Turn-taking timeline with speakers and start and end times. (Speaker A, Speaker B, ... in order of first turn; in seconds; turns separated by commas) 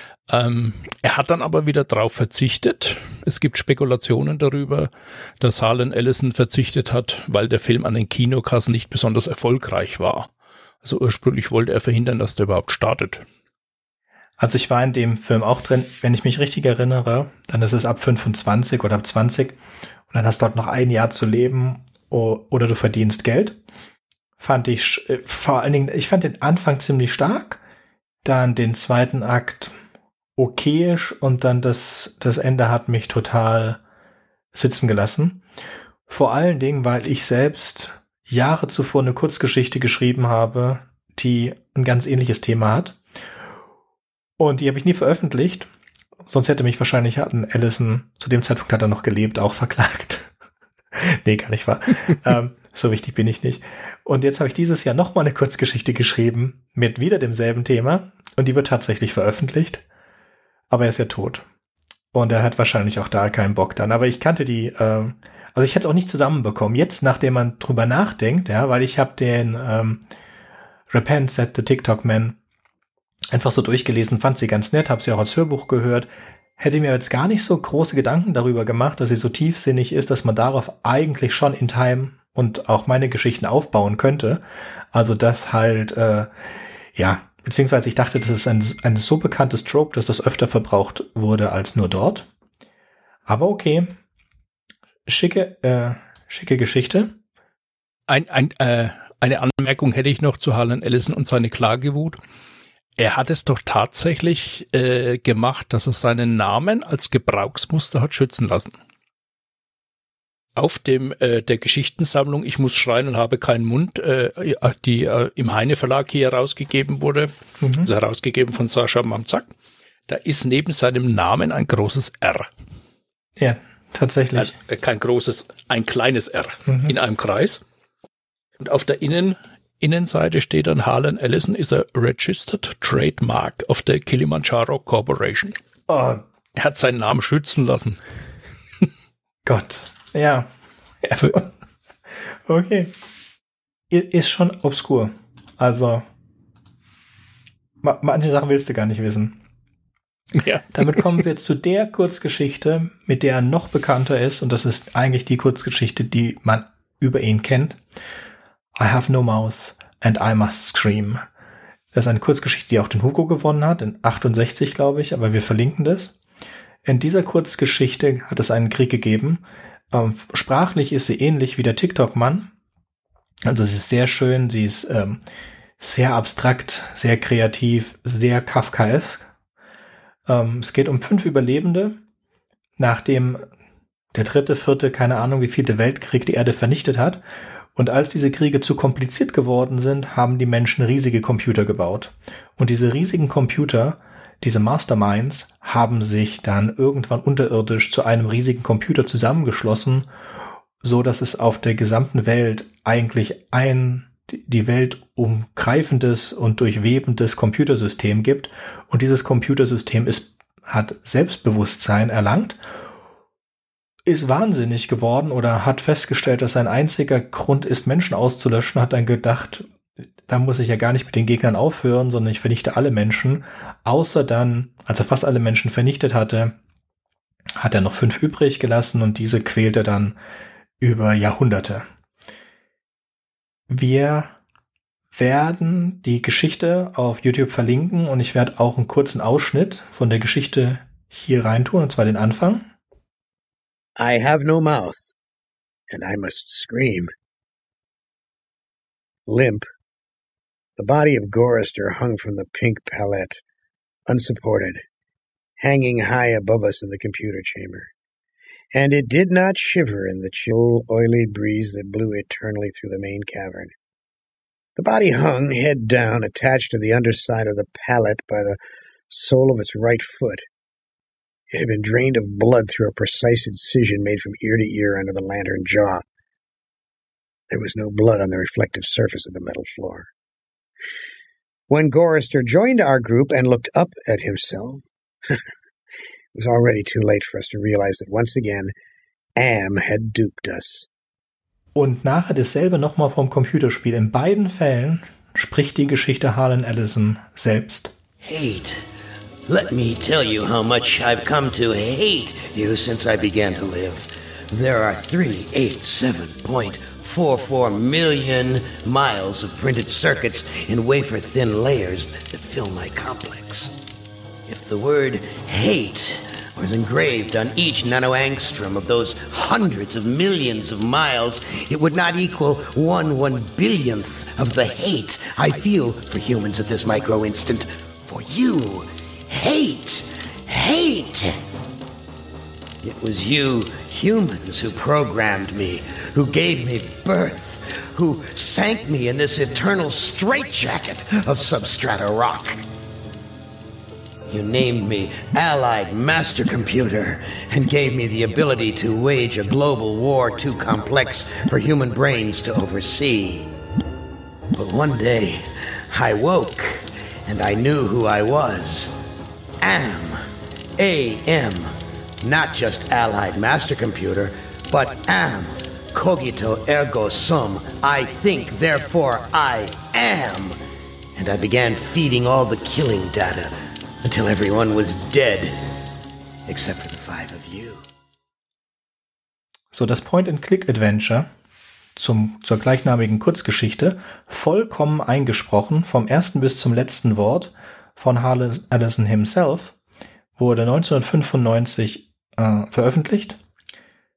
Speaker A: 0.3-10.3, Speaker A: 10.8-13.2, Speaker B: 14.4-19.6, Speaker B: 20.1-23.6, Speaker B: 24.4-27.6, Speaker B: 28.2-29.7, Speaker B: 30.4-33.8, Speaker B: 34.5-35.4, Speaker B: 36.1-43.0, Speaker B: 44.4-45.7, Speaker B: 46.3-50.3, Speaker B: 50.9-59.8, Speaker B: 60.7-61.4, Speaker B: 62.1-70.0, Speaker B: 70.9-72.4, Speaker B: 73.3-76.1, Speaker B: 76.6-86.3, Speaker B: 86.9-92.3, Speaker B: 93.2-93.9, Speaker B: 95.1-97.2, Speaker A: 98.1-102.2, Speaker A: 103.0-108.8, Speaker A: 110.5-119.5, Speaker B: 117.6-117.9, Speaker A: 120.1-122.5, Speaker B: 123.4-124.5, Speaker A: 124.3-127.6, Speaker A: 128.6-135.6, Speaker B: 135.9-136.2, Speaker A: 136.6-138.0, Speaker B: 139.4-140.5, Speaker B: 141.0-141.5, Speaker B: 142.1-142.9, Speaker B: 143.9-146.0, Speaker B: 147.8-149.4, Speaker A: 150.4-150.6, Speaker B: 150.7-157.8, Speaker B: 158.8-161.2, Speaker B: 161.9-166.1, Speaker B: 166.8-172.5, Speaker B: 173.5-175.2, Speaker B: 175.8-179.2, Speaker B: 180.2-182.0, Speaker B: 182.8-183.4, Speaker B: 184.1-187.2, Speaker B: 187.7-200.1, Speaker B: 200.8-212.6, Speaker B: 214.0-219.7, Speaker B: 220.2-226.6, Speaker B: 227.6-230.2, Speaker B: 230.8-231.8, Speaker B: 233.7-234.3, Speaker B: 235.1-242.7, Speaker C: 244.0-245.1, Speaker C: 245.9-247.1, Speaker C: 249.3-249.7, Speaker C: 250.8-253.4, Speaker C: 254.1-254.8, Speaker C: 255.6-257.9, Speaker C: 258.7-263.7, Speaker C: 264.8-268.6, Speaker C: 269.1-270.4, Speaker C: 271.5-276.0, Speaker C: 277.5-280.1, Speaker C: 281.7-285.4, Speaker C: 286.3-288.7, Speaker C: 289.4-290.9, Speaker B: 291.7-297.9, Speaker D: 298.2-298.8, Speaker D: 299.5-313.8, Speaker D: 314.5-331.4, Speaker D: 332.8-342.6, Speaker D: 344.3-353.5, Speaker D: 354.5-358.9, Speaker D: 359.6-360.2, Speaker D: 360.8-370.6, Speaker D: 371.1-375.6, Speaker D: 376.5-377.8, Speaker B: 379.7-381.3, Speaker B: 381.9-389.8, Speaker B: 390.4-393.4